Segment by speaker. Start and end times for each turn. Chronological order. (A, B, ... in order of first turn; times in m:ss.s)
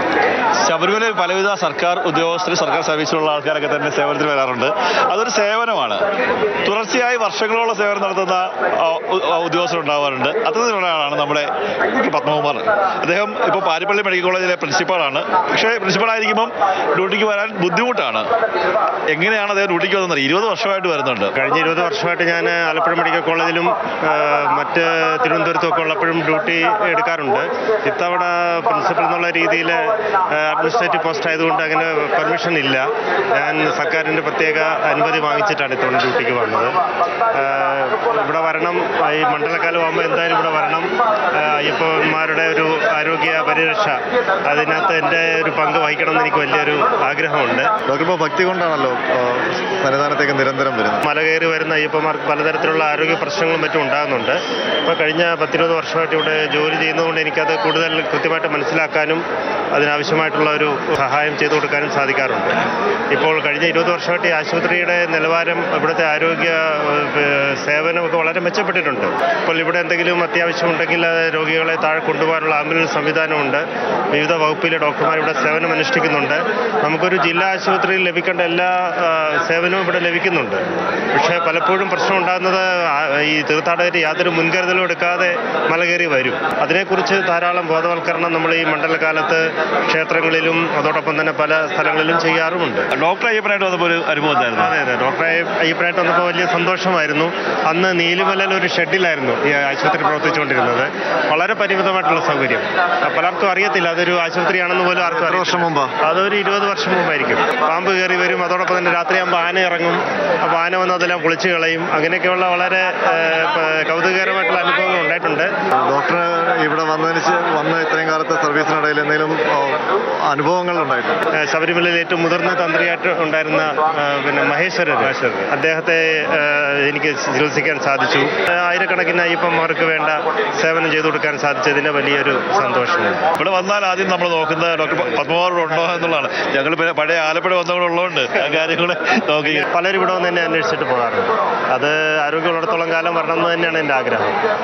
0:00.6-0:06.0 A
0:06.6-0:18.3 A
0:19.1-0:21.3 A
0:21.4-0:36.8 B
0:37.3-0:47.7 B
0:47.8-0:51.0 C
0:51.0-1:02.5 B
1:03.1-1:32.9 B
1:32.9-1:34.8 A
1:34.6-1:55.5 B
1:45.0-1:45.9 C
1:55.7-2:01.2 C
2:01.3-2:13.2 B
2:13.4-2:19.6 A
2:19.4-2:24.4 B